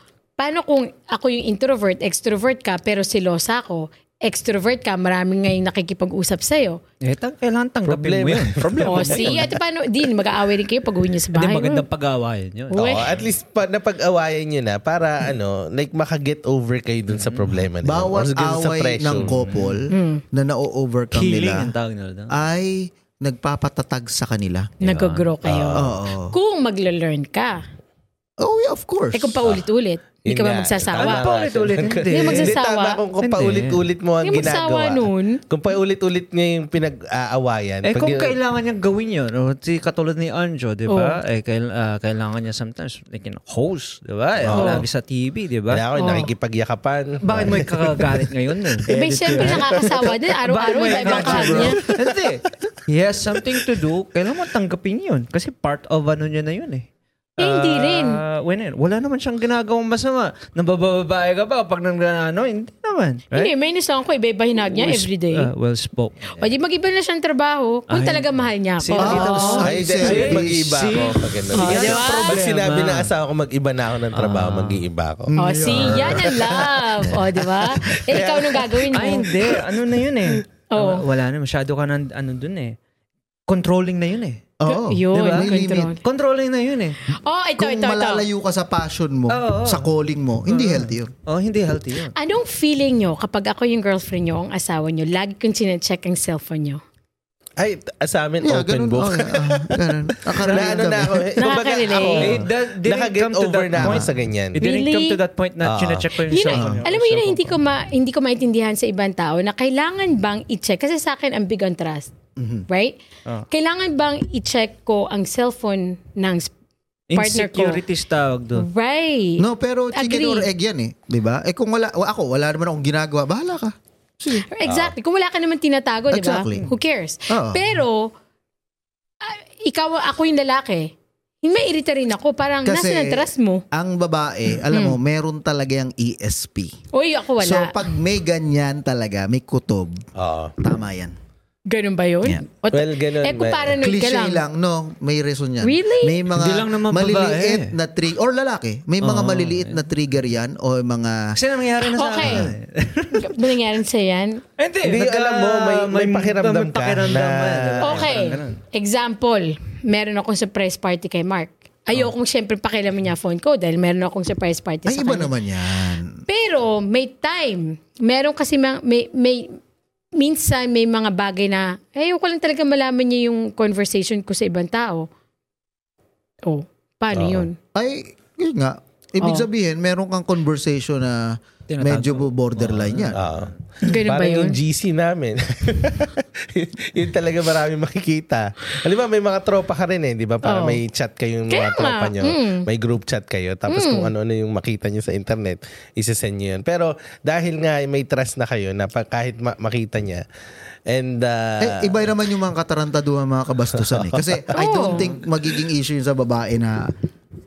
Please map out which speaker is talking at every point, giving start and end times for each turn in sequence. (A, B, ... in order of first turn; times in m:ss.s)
0:00.4-0:06.8 A
0:07.0-0:09.6 B
0:07.8-0:09.6 C
0:08.8-0:11.8 A
0:11.3-0:13.3 B
0:12.7-0:13.0 A
0:12.8-0:19.5 C
0:17.1-0:17.6 B
0:17.8-0:21.7 D
0:19.5-0:19.8 B
0:19.9-0:20.2 A
0:21.1-0:22.3 B
0:22.3-0:24.7 D
0:24.8-0:25.3 B
0:24.8-0:27.6 A
0:25.4-0:25.9 C
0:25.8-0:26.3 D
0:28.4-0:29.4 D
0:29.1-0:31.3 A
0:30.2-0:38.4 C
0:31.0-0:32.6 B
0:32.1-0:33.0 A
0:33.2-0:33.8 B
0:34.2-0:35.4 A
0:37.8-0:45.8 B
0:40.9-0:41.2 A
0:44.4-0:44.8 C
0:44.5-0:44.8 A
0:45.7-0:50.3 C
0:46.0-0:46.3 A
0:47.2-0:49.9 B
0:48.9-0:51.8 A
0:50.4-1:03.5 B
0:50.8-0:52.7 C
0:57.4-0:58.2 A
1:03.3-1:05.5 A
1:04.6-1:06.5 B
1:06.4-1:09.7 A
1:07.9-1:13.1 B
1:09.0-1:10.7 D
1:09.6-1:15.3 C
1:11.5-1:12.4 A
1:14.1-1:14.8 B
1:15.3-1:16.3 D
1:15.4-1:19.3 A
1:15.5-1:16.2 B
1:15.8-1:19.8 C
1:18.9-1:22.7 B
1:20.7-1:21.0 A
1:23.5-1:24.4 B
1:24.6-1:25.9 D
1:24.6-1:26.0 A
1:25.1-1:27.0 B
1:27.1-1:28.2 A
1:27.6-1:31.1 D
1:29.3-1:29.9 B
1:30.5-1:32.1 B
1:32.1-1:36.8 A
1:37.6-1:44.6 C
1:38.4-1:41.4 D
1:40.4-1:40.9 B
1:41.4-1:42.3 A
1:42.0-1:47.6 B
1:43.8-1:44.1 D
1:44.6-1:45.2 A
1:45.6-1:46.1 C
1:46.2-1:52.1 A
1:46.5-1:46.8 D
1:52.4-1:52.7 D
1:52.7-1:53.0 A
1:53.5-1:56.5 A
1:57.1-1:58.7 B
1:57.2-1:57.8 A
1:58.6-2:00.5 A
1:59.4-2:04.4 D
2:04.5-2:08.1 A
2:04.6-2:04.9 C
2:06.1-2:06.7 D
2:07.3-2:07.7 D
2:09.2-2:13.6 A
2:12.6-2:16.7 D
2:14.7-2:15.0 A
2:16.9-2:17.9 A
2:17.4-2:20.0 D
2:20.2-2:20.5 C
2:20.6-2:21.2 D
2:21.7-2:24.4 A
2:22.7-2:23.8 C
2:23.8-2:31.4 D
2:25.6-2:26.2 A
2:26.3-2:27.8 B
2:29.0-2:29.8 B
2:31.3-2:33.6 B
2:31.8-2:32.5 A
2:32.2-2:32.5 D
2:33.2-2:34.4 A
2:34.6-2:38.6 B
2:34.8-2:38.1 C
2:37.8-2:45.3 A
2:44.8-2:46.2 D
2:46.3-2:49.6 A
2:50.2-2:55.1 A
2:56.4-2:57.6 A
2:57.1-2:57.5 C
2:57.7-3:03.2 D
2:59.2-2:59.4 A
3:01.7-3:03.5 B
3:03.1-3:20.2 C
3:03.8-3:04.6 A
3:10.4-3:10.8 A
3:11.5-3:12.7 A
3:13.7-3:14.1 A
3:20.9-3:22.0 C
3:21.6-3:26.9 D
3:23.9-3:24.3 C
3:24.5-3:25.1 A